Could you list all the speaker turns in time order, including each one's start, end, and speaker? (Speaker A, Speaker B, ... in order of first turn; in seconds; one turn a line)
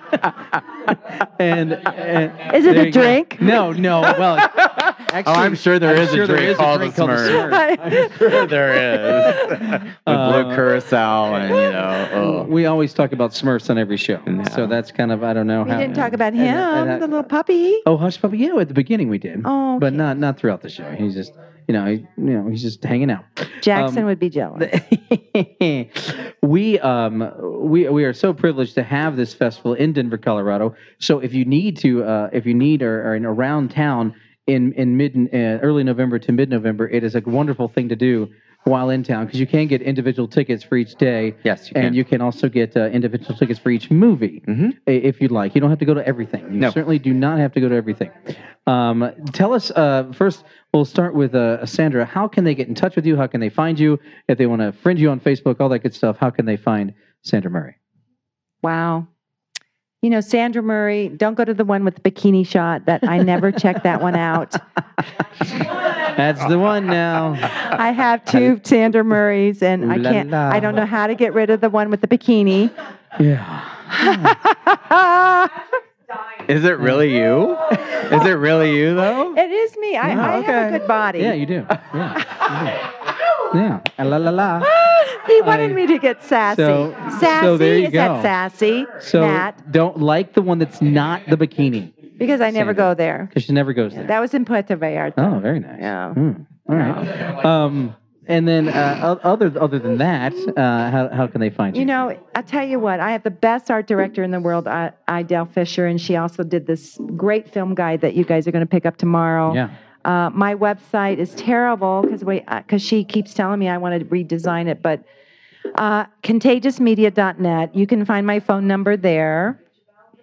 Speaker A: 1.1-8.2
Speaker B: 2.4-3.6
Speaker C: 4.4-12.5
Speaker B: 7.3-8.5
Speaker B: 9.2-9.6
Speaker A: 9.3-10.7
Speaker A: 11.6-17.2
Speaker C: 14.2-14.8
Speaker B: 15.6-17.9
Speaker A: 17.8-57.7
Speaker B: 19.4-20.1
Speaker B: 23.6-24.7
Speaker C: 41.4-42.0
Speaker C: 44.5-44.8
Speaker B: 58.6-59.1
Speaker B: 60.0-64.6
Speaker A: 65.6-67.5
Speaker B: 67.5-72.7
Speaker A: 69.8-70.8
Speaker A: 73.2-74.4
Speaker B: 73.9-75.5
Speaker C: 76.5-79.4
Speaker B: 79.3-81.4
Speaker A: 80.0-82.8
Speaker B: 82.2-82.5
Speaker A: 83.5-84.7
Speaker B: 84.6-89.6
Speaker A: 85.4-85.8
Speaker A: 86.5-88.3
Speaker A: 89.0-91.9
Speaker B: 92.2-93.3
Speaker A: 92.5-94.1
Speaker B: 93.9-96.2
Speaker A: 95.2-102.0
Speaker B: 101.7-115.0
Speaker A: 109.5-109.7
Speaker B: 115.7-119.6